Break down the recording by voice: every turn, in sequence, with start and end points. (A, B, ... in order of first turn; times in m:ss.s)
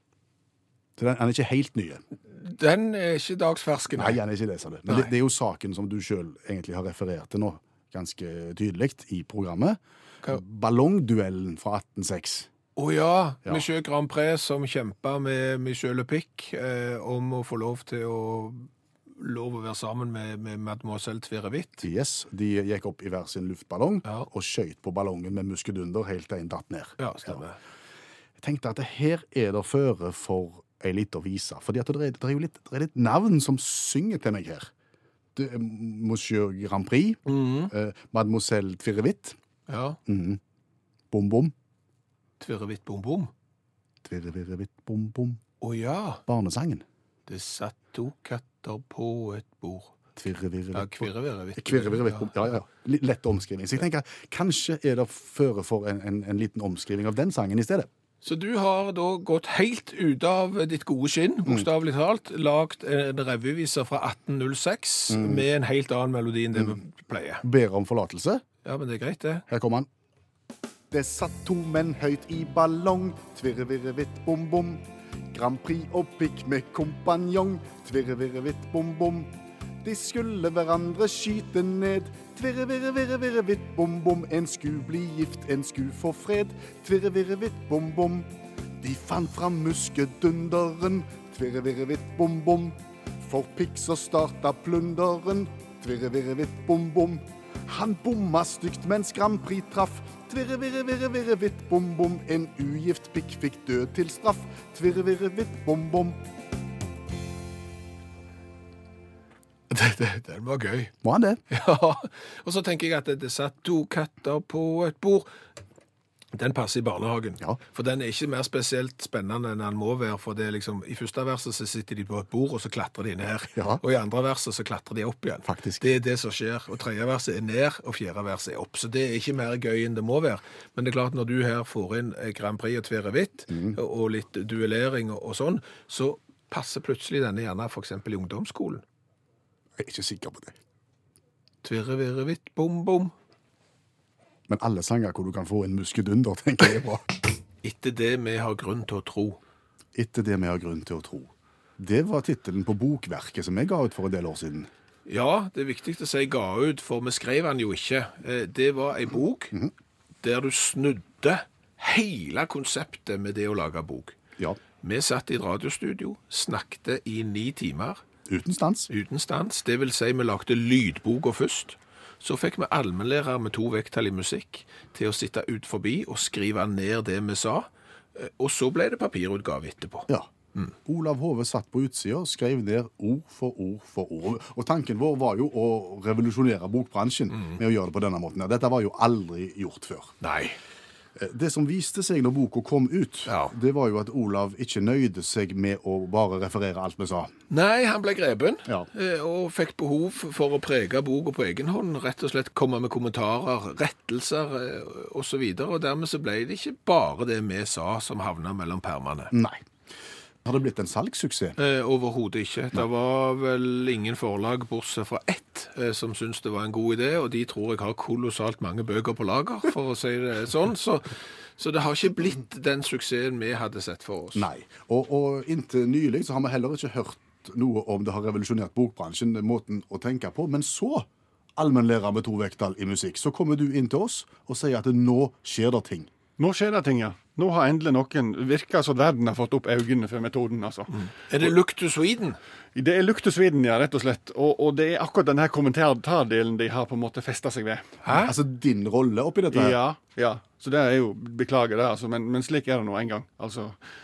0:01.0-0:02.0 A
0:02.3-0:04.2 B
0:04.0-0:12.5 A
0:12.8-0:21.8 B
0:21.8-0:27.4 A
0:27.0-0:27.6 B
0:28.4-0:34.7 A
0:35.3-0:39.4 A
0:37.2-0:37.7 B
0:39.7-0:40.0 B
0:40.1-0:40.4 A
0:41.1-0:41.5 A
0:42.4-0:43.3 B
0:44.0-0:45.4 A
0:45.6-0:46.2 B
0:46.3-0:46.8 A
0:47.3-0:49.9 B
0:50.2-0:57.9 A
0:50.7-0:52.5 B
0:58.2-1:07.4 B
1:05.1-1:05.4 A
1:07.4-1:08.4 A
1:08.6-1:09.4 B
1:09.5-1:09.9 A
1:10.9-1:19.3 A
1:19.8-1:28.3 A
1:28.8-1:46.2 A
1:49.7-1:50.9 B
1:51.0-1:51.4 A
1:51.5-1:55.3 B
1:56.3-2:18.8 B
2:03.5-2:03.8 A
2:05.4-2:05.8 A
2:13.5-2:13.8 A
2:19.8-2:20.6 A
2:21.6-2:23.1 B
2:24.5-2:27.0 A
2:27.6-2:29.4 B
2:29.9-2:34.7 A
2:35.0-2:39.6 B
2:40.2-2:44.2 B
2:44.8-2:48.0 B
2:48.3-2:48.9 A
2:48.9-3:00.7 B
3:00.8-3:10.1 A
3:10.2-3:10.6 B
3:11.2-3:17.3 A
3:13.3-3:13.5 B
3:17.5-3:29.3 B
3:29.3-3:29.6 A
3:30.4-3:31.6 A
3:31.6-3:44.5 B
3:44.3-3:56.1 A
3:56.4-4:01.0 C
4:01.0-4:02.4 B
4:02.7-4:07.9 C
4:08.0-4:08.3 B
4:08.1-4:09.8 A
4:09.5-4:13.8 C